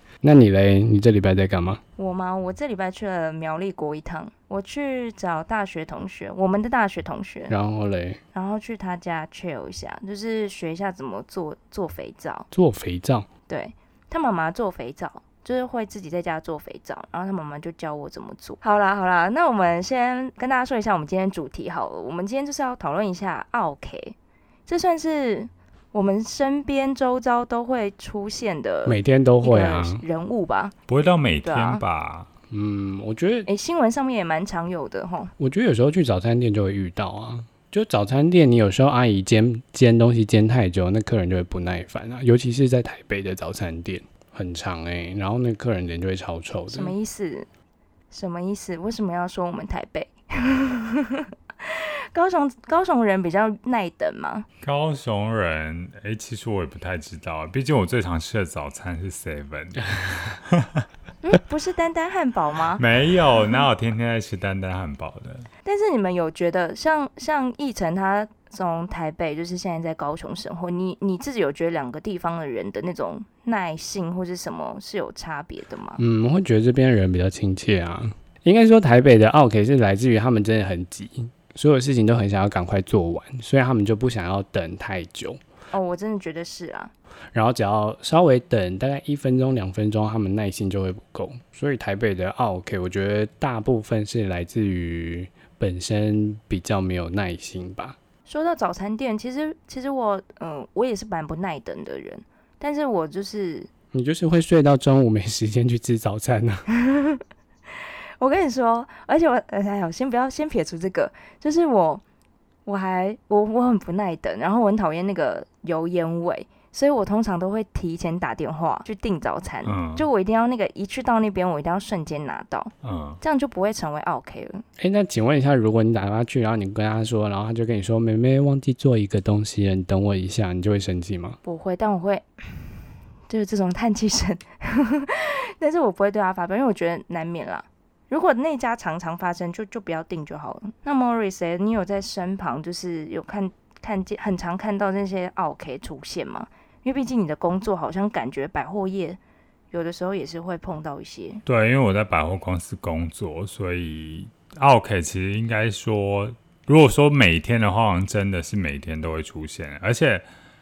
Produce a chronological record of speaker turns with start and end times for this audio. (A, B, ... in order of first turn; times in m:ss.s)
0:00.2-0:01.8 A
0:02.0-0:07.5 B
0:07.5-0:08.2 A
0:08.3-0:12.4 B
0:12.5-0:13.3 A
0:13.5-0:24.1 B
0:24.6-0:30.7 B
0:28.8-0:30.0 A
0:30.9-0:32.3 C
0:31.4-0:31.8 B
0:32.5-0:33.5 A
0:33.4-0:35.3 B
0:35.4-0:47.0 A
0:46.7-0:47.5 B
0:48.1-0:54.4 B
0:54.6-1:00.8 C
1:01.2-1:02.8 B
1:02.8-1:05.5 C
1:05.6-1:16.0 B
1:16.0-1:25.4 A
1:25.7-1:26.9 B
1:27.3-1:38.0 A
1:38.2-1:43.7 B
1:43.9-1:46.6 A
1:46.7-1:47.2 B
1:48.2-1:52.0 B
1:52.6-2:04.6 B
1:59.6-2:00.1 C
2:02.8-2:03.2 C
2:04.8-2:11.4 A
2:11.4-2:12.7 B
2:13.3-2:29.2 B
2:29.7-2:31.4 B
2:31.4-2:40.2 C